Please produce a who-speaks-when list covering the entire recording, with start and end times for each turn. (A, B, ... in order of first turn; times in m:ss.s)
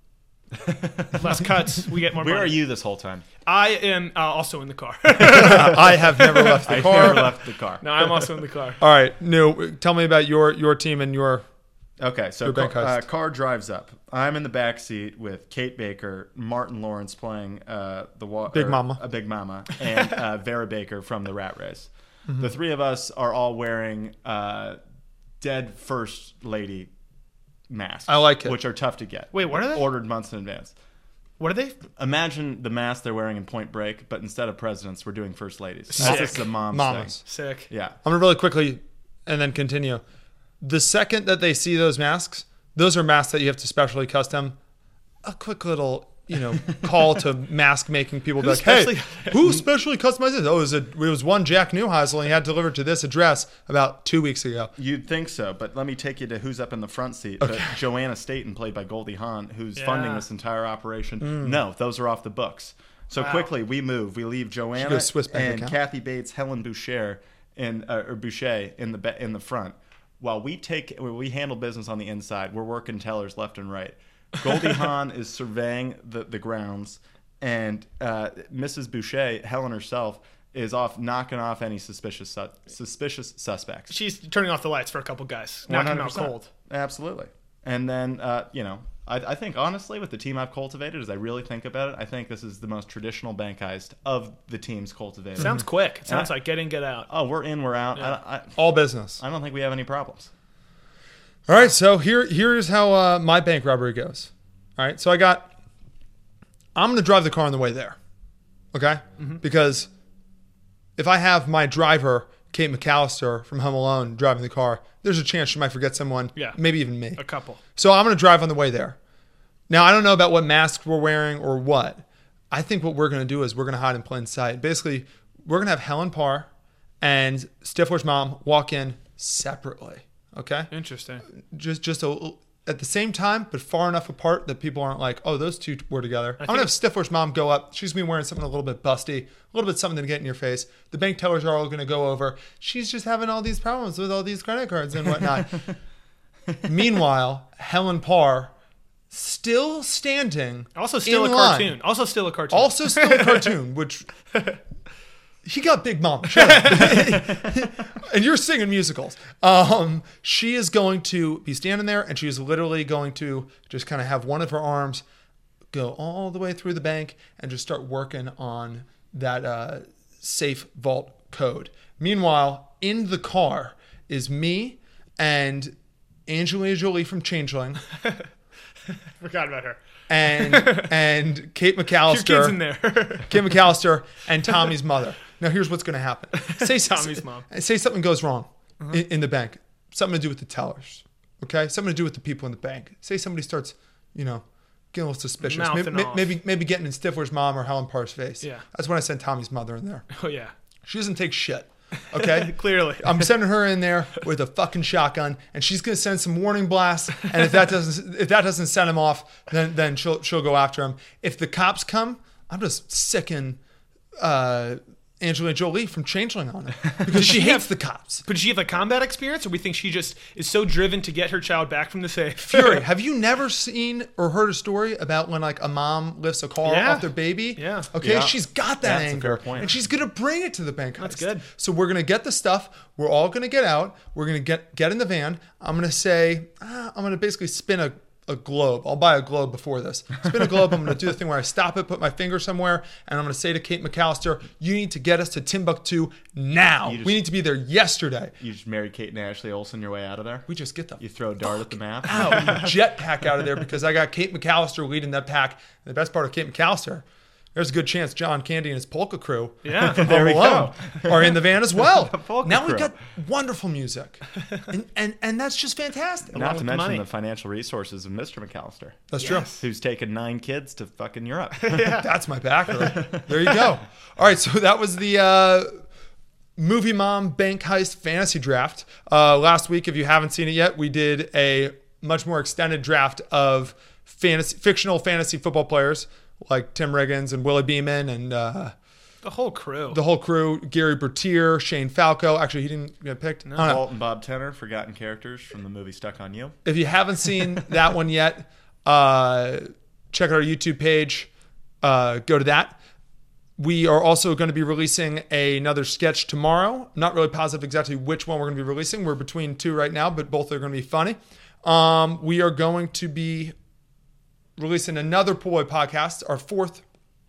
0:00.5-0:01.3 A
0:01.2-0:02.5 B
0:02.2-0:03.2 A
0:03.4-0:07.3 B
0:05.2-0:07.3 C
0:06.6-0:08.3 A
0:07.8-0:08.8 B
0:08.8-0:11.4 C
0:12.0-0:24.8 A
0:12.4-0:13.0 C
0:18.5-0:19.0 C
0:25.4-0:26.9 A
0:27.7-0:30.7 A
0:28.1-0:28.6 C
0:29.3-0:29.9 B
0:31.4-0:31.8 B
0:32.0-0:38.0 A
0:35.9-0:36.5 B
0:36.0-0:37.2 C
0:37.2-0:37.7 B
0:38.0-0:40.0 C
0:40.6-0:44.6 C
0:45.2-0:54.7 C
0:48.4-0:49.6 B
0:54.8-1:23.9 A
0:57.4-0:57.8 C
0:59.8-1:00.2 B
1:01.2-1:01.6 C
1:03.2-1:03.5 B
1:04.8-1:05.8 C
1:23.9-1:26.5 B
1:25.7-1:36.3 A
1:35.4-1:37.1 B
1:37.1-1:40.3 A
1:38.6-1:39.2 C
1:41.5-1:45.5 C
1:46.7-1:48.0 C
1:48.7-1:49.9 C
1:51.0-1:57.2 C
1:57.2-1:57.6 B
1:57.8-1:59.0 C
1:59.7-2:06.5 C
2:07.0-2:10.7 C
2:10.7-2:11.2 B
2:11.3-2:25.6 C
2:16.4-2:16.7 B
2:26.6-2:28.5 C
2:29.1-2:31.8 C
2:30.8-2:33.5 B
2:32.5-2:34.1 C
2:35.4-2:45.0 C
2:36.3-2:37.1 B
2:45.7-2:55.7 C
2:56.3-2:57.8 C
2:59.2-2:59.8 B
3:00.1-3:02.6 C
3:00.3-3:00.9 B
3:02.1-3:03.4 B
3:03.2-3:20.0 C
3:06.4-3:07.4 B
3:15.4-3:16.4 B
3:20.1-3:20.5 B
3:20.8-3:33.6 C
3:22.1-3:23.3 B
3:34.2-3:38.2 C
3:37.0-3:37.7 B
3:38.2-3:42.8 B
3:42.4-4:08.3 C
3:46.6-3:47.9 B
3:48.0-3:49.8 A
3:51.0-3:51.4 B
4:06.8-4:07.2 A
4:08.4-4:10.4 A
4:10.5-4:11.0 C
4:11.0-4:12.7 A
4:11.5-4:26.6 C
4:19.6-4:20.1 B
4:19.8-4:22.9 A
4:26.3-4:32.0 A
4:26.3-4:27.0 B
4:29.1-4:29.5 C
4:29.2-4:29.6 B
4:31.6-4:32.1 B
4:32.0-4:35.7 C
4:36.6-4:48.7 C
4:49.2-4:50.0 B
4:49.9-4:53.8 C
4:53.6-4:56.6 A
4:56.6-5:01.3 C
5:01.8-5:02.8 C
5:03.6-5:13.5 C
5:14.6-5:16.8 C